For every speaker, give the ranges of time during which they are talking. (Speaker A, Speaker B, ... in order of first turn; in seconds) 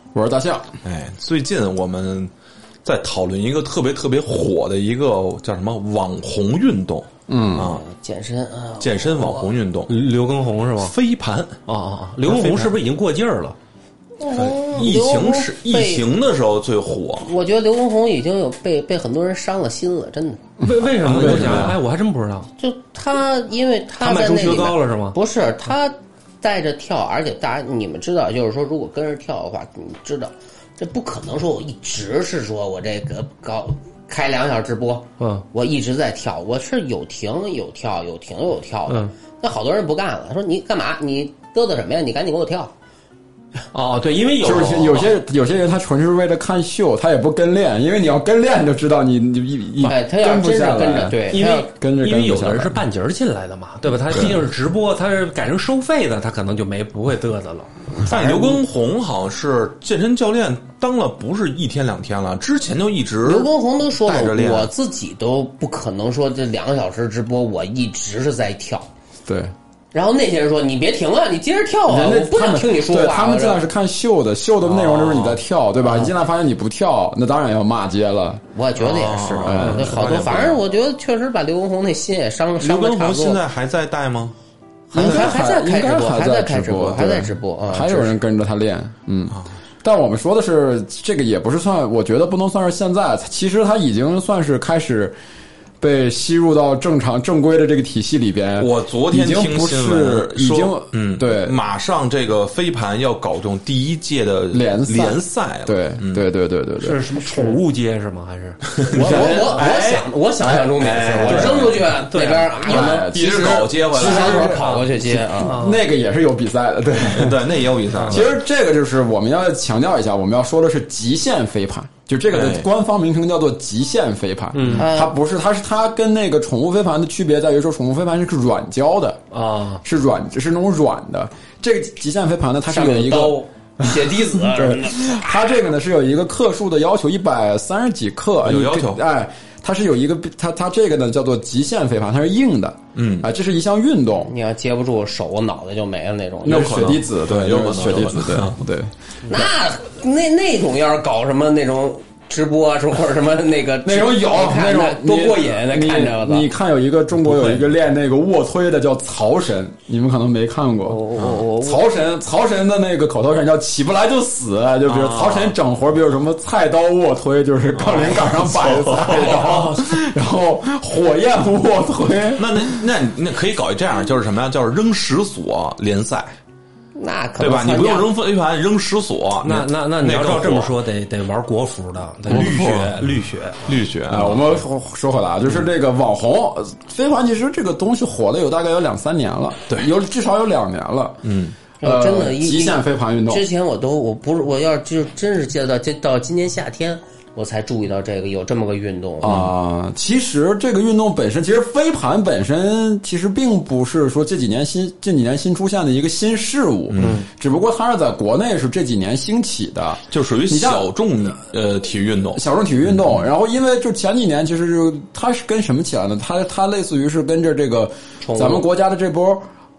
Speaker A: 0.1-0.7, 7.3-7.7, 20.6-21.8, 44.4-52.8, 54.1-54.4, 69.2-69.5, 71.9-78.4, 79.4-79.9, 84.9-95.1, 95.8-101.6, 104.5-107.6, 109.0-109.7, 111.2-111.7, 112.7-117.5, 118.0-129.2, 129.8-144.3, 146.4-149.5, 153.8-161.0, 161.6-172.4, 184.1-191.2, 191.8-193.4, 199.2-210.9, 212.3-219.4
Speaker B: 0.8-2.3, 2.8-7.8, 8.8-9.9, 10.8-11.6, 12.2-12.8, 14.3-17.3, 21.0-21.8, 44.4-45.0, 58.0-63.5, 64.0-64.7, 74.6-75.4, 78.8-80.6, 82.6-84.3, 98.6-106.2, 108.7-111.8, 112.7-114.6, 117.0-118.3, 122.3-122.7, 138.4-139.0, 142.9-143.3, 146.4-148.6, 164.8-165.5, 167.7-169.7, 172.4-176.3, 177.4-180.7, 182.3-183.1, 183.6-184.4, 191.2-191.6, 206.9-207.2, 210.1-212.4
Speaker C: 7.6-9.5, 14.2-16.0, 17.2-20.5, 22.6-42.7, 49.8-51.7, 58.0-58.6, 63.2-68.9, 69.9-73.6, 75.8-76.1, 78.5-83.4, 84.9-88.2, 108.9-115.5, 124.8-125.1, 132.7-135.3, 144.3-146.7, 149.2-156.5, 160.8-161.8, 169.1-169.8, 176.9-178.1, 191.8-199.4, 218.2-218.6
Speaker D: 9.9-10.9, 11.7-13.6, 20.6-22.5, 24.0-25.2, 35.2-35.4, 43.7-45.1, 51.3-57.9, 106.8-108.6, 111.2-112.7, 114.1-115.8, 118.0-118.2, 124.5-124.9, 129.3-129.8, 157.3-157.6, 179.4-183.6, 207.0-207.2